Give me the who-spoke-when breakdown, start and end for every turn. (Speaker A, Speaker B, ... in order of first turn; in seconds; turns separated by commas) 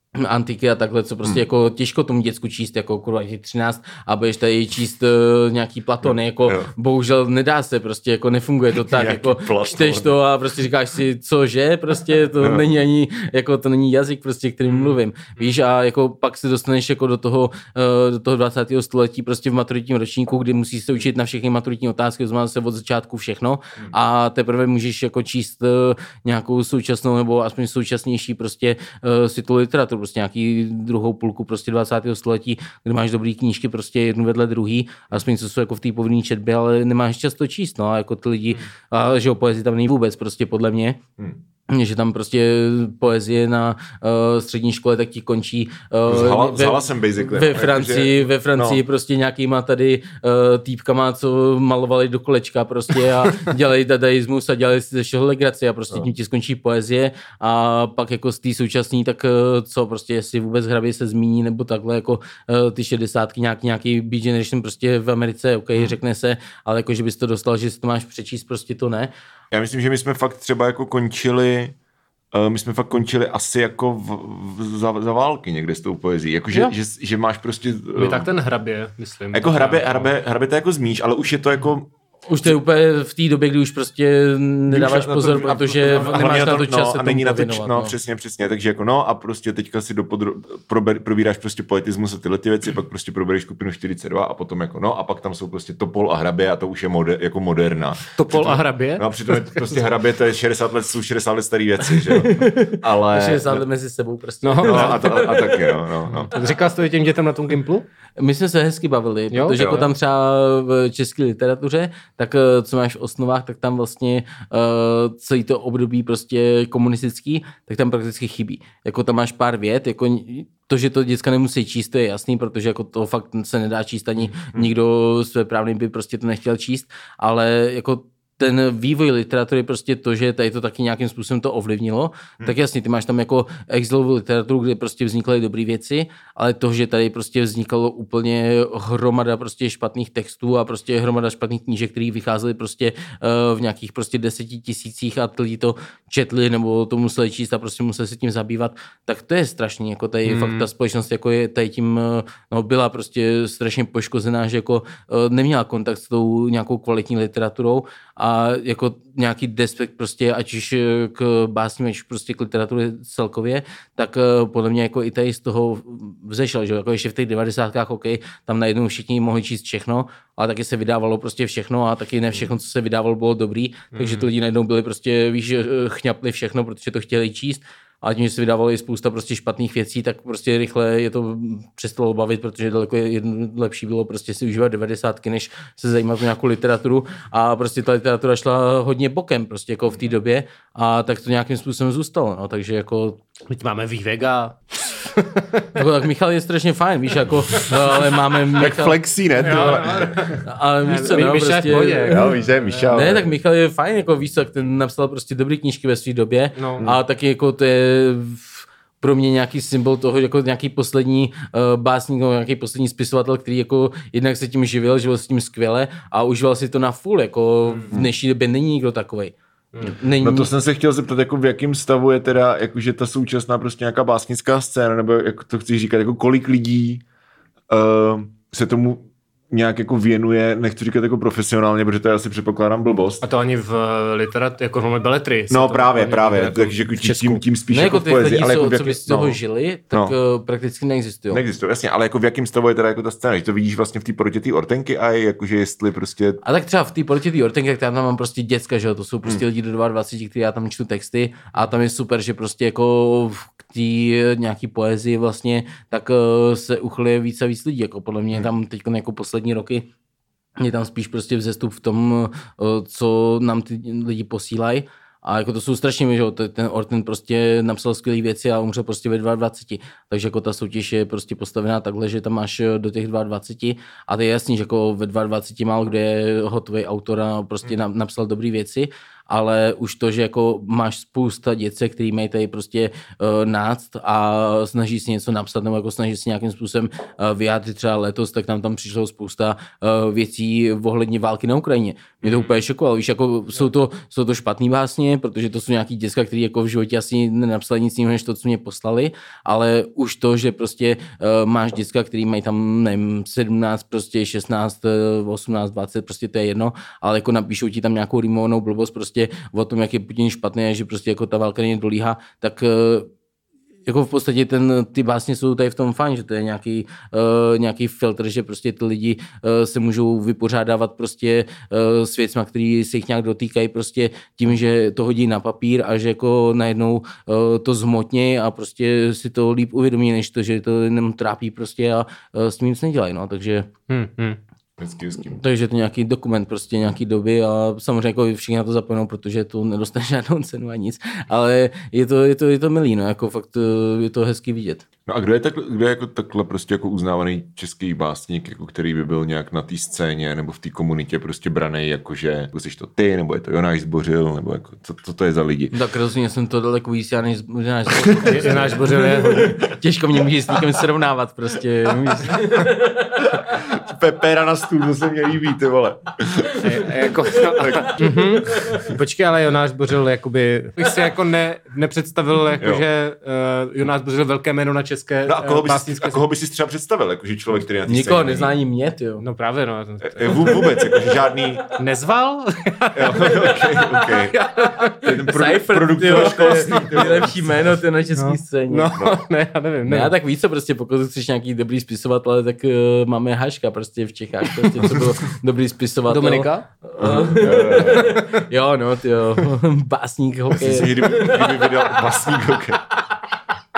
Speaker A: 0.1-41.0, Speaker B: 6.0-6.7, Speaker B: 8.8-10.2, Speaker B: 12.4-12.7, Speaker A: 41.7-69.1, Speaker B: 46.1-48.8, Speaker B: 69.5-71.8, Speaker B: 72.3-78.3, Speaker C: 78.0-80.1, Speaker B: 79.3-81.9, Speaker A: 82.3-87.9, Speaker B: 84.7-103.6, Speaker C: 98.2-99.6, Speaker A: 102.1-105.8, Speaker C: 104.4-105.2, Speaker B: 104.6-106.3, Speaker C: 106.2-107.9, Speaker A: 108.2-193.2, Speaker C: 109.3-109.8, Speaker B: 109.6-109.9, Speaker B: 124.2-124.7, Speaker C: 150.2-150.7, Speaker C: 173.9-174.3, Speaker C: 193.5-195.7, Speaker A: 195.7-199.0, Speaker B: 198.6-200.4, Speaker C: 199.4-202.9, Speaker A: 200.4-202.3, Speaker B: 201.7-203.3, Speaker A: 202.9-220.5, Speaker C: 206.6-206.9, Speaker B: 220.2-227.0, Speaker B: 227.7-233.2, Speaker C: 233.2-237.4, Speaker B: 235.5-239.4, Speaker A: 237.7-241.4, Speaker B: 241.3-246.4, Speaker A: 246.4-259.9, Speaker A: 260.6-313.1, Speaker B: 292.2-292.5, Speaker A: 313.9-333.7, Speaker C: 333.9-334.4, Speaker B: 334.8-335.4, Speaker A: 335.3-344.8, Speaker B: 345.1-355.7, Speaker A: 355.7-363.4, Speaker B: 358.0-358.8, Speaker C: 358.2-359.6, Speaker B: 363.2-368.1, Speaker C: 366.6-376.2, Speaker A: 367.6-368.8, Speaker B: 368.6-368.9, Speaker B: 372.6-372.9, Speaker B: 375.3-378.5, Speaker A: 377.9-379.2, Speaker C: 379.2-380.7, Speaker B: 380.0-381.6, Speaker A: 380.3-380.6, Speaker C: 381.7-385.1, Speaker B: 382.9-384.4, Speaker A: 383.2-384.1, Speaker A: 384.8-388.9, Speaker B: 385.0-387.5, Speaker C: 386.2-386.9, Speaker C: 388.2-390.1, Speaker A: 389.9-401.9, Speaker C: 396.1-396.7, Speaker B: 397.0-398.2, Speaker C: 397.9-398.2, Speaker B: 400.5-402.8